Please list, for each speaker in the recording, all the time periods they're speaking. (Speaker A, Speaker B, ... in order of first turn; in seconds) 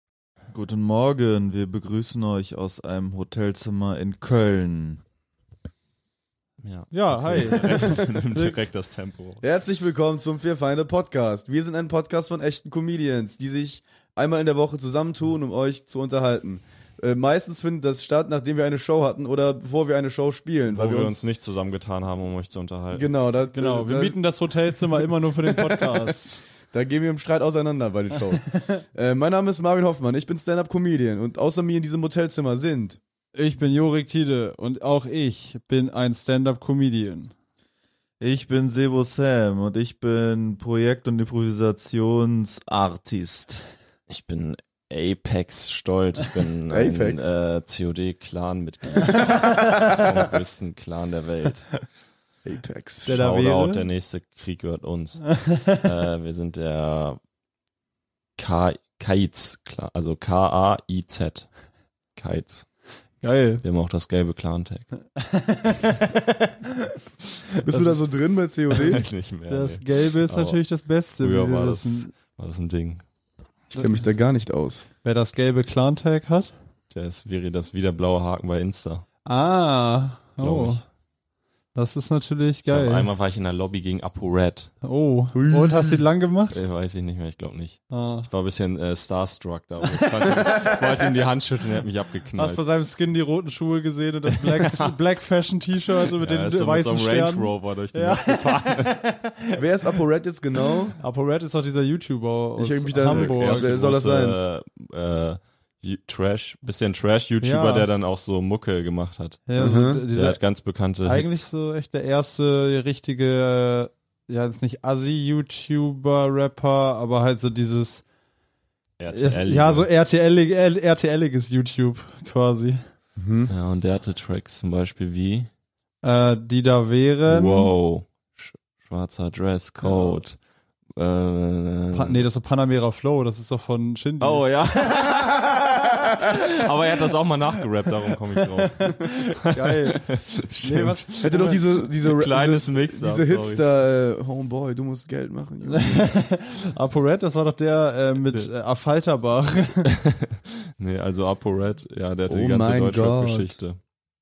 Speaker A: 0.5-5.0, 38.2-43.6
Speaker B: 6.6-9.4, 20.7-23.1, 44.1-51.8, 53.0-57.2, 58.4-61.5, 62.1-62.7, 63.6-64.9, 68.7-70.6, 71.2-73.0, 76.9-79.0, 80.4-80.8, 82.6-84.7, 86.5-92.6, 94.3-94.9, 96.2-99.0, 103.0-111.5, 119.0-119.9, 123.5-125.5, 127.3-130.4, 130.9-132.2, 134.2-143.6, 150.8-153.8
Speaker C: 6.9-8.6, 23.5-26.4, 33.3-37.3, 53.0-53.8, 55.4-55.7, 63.2-63.6, 65.2-66.5, 69.5-72.1, 75.0-76.5, 79.2-80.8, 81.7-83.1, 84.8-86.6, 87.9-88.3, 89.9-90.5, 92.3-99.6, 101.0-103.7, 107.4-107.9, 109.5-110.4, 111.0-118.0, 119.1-122.8, 126.0-127.7, 129.8-130.1, 131.9-134.4, 138.8-141.6, 145.7-149.9
Speaker D: 9.4-21.2, 22.9-24.2, 25.4-26.1, 26.7-33.0, 46.7-47.3, 52.4-53.1, 67.6-69.0, 73.7-74.8, 85.3-86.0, 99.6-101.0, 102.5-104.4, 109.6-110.0, 123.2-123.5, 141.2-146.2, 152.3-153.5